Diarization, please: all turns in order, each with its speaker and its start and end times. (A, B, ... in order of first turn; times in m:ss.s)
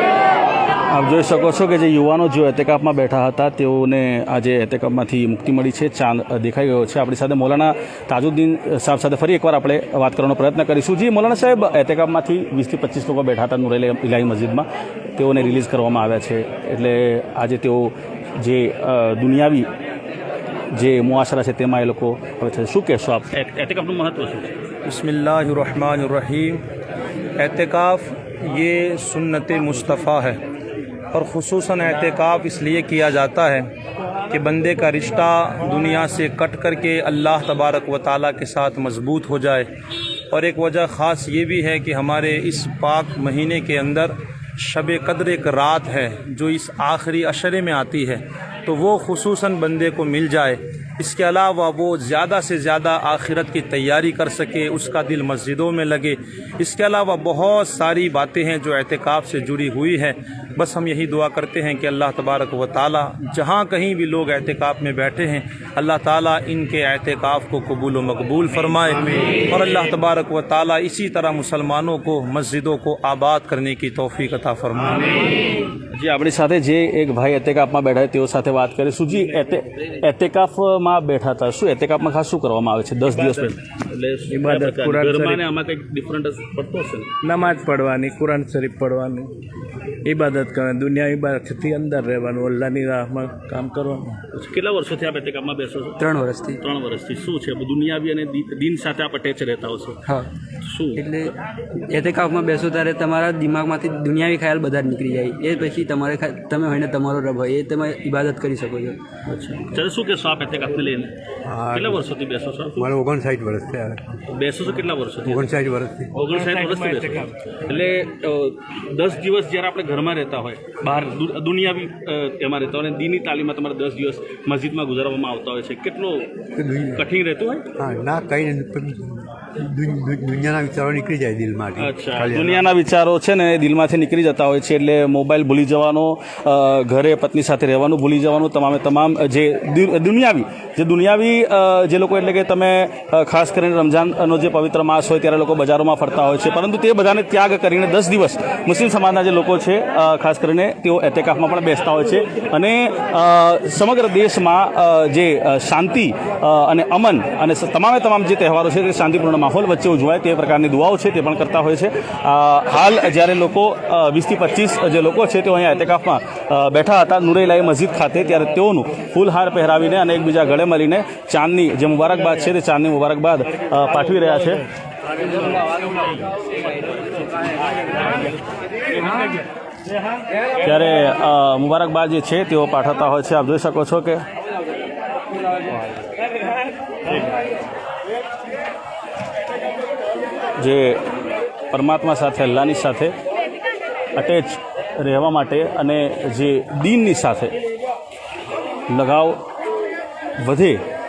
0:00.9-0:19.7 A
0:20.7-0:24.6 A
0:24.9-0:26.6 B
0:27.4-0:30.4 B
0:31.1-0:33.7 B
0:34.3-0:39.7 B
0:40.3-1:15.3 B
1:15.9-1:27.2 A
1:23.2-1:23.5 C
1:24.3-1:25.4 C
1:27.2-1:29.3 C
1:30.0-1:34.2 C
1:34.3-1:40.1 A
1:36.0-1:36.5 D
1:40.6-1:41.3 A
1:41.9-1:49.0 D
1:49.3-1:51.2 A
1:51.4-1:52.1 E
1:51.7-1:52.9 A
1:52.8-1:54.2 E
1:54.3-1:55.5 A
1:55.2-1:56.1 E
1:56.1-2:07.7 A
2:06.6-2:07.0 E
2:07.8-2:12.7 E
2:11.8-2:54.6 A
3:00.6-3:04.2 A
3:10.6-3:11.0 A
3:11.7-3:13.2 A
3:14.2-3:17.6 A
3:18.9-3:19.4 A
3:20.4-3:20.8 A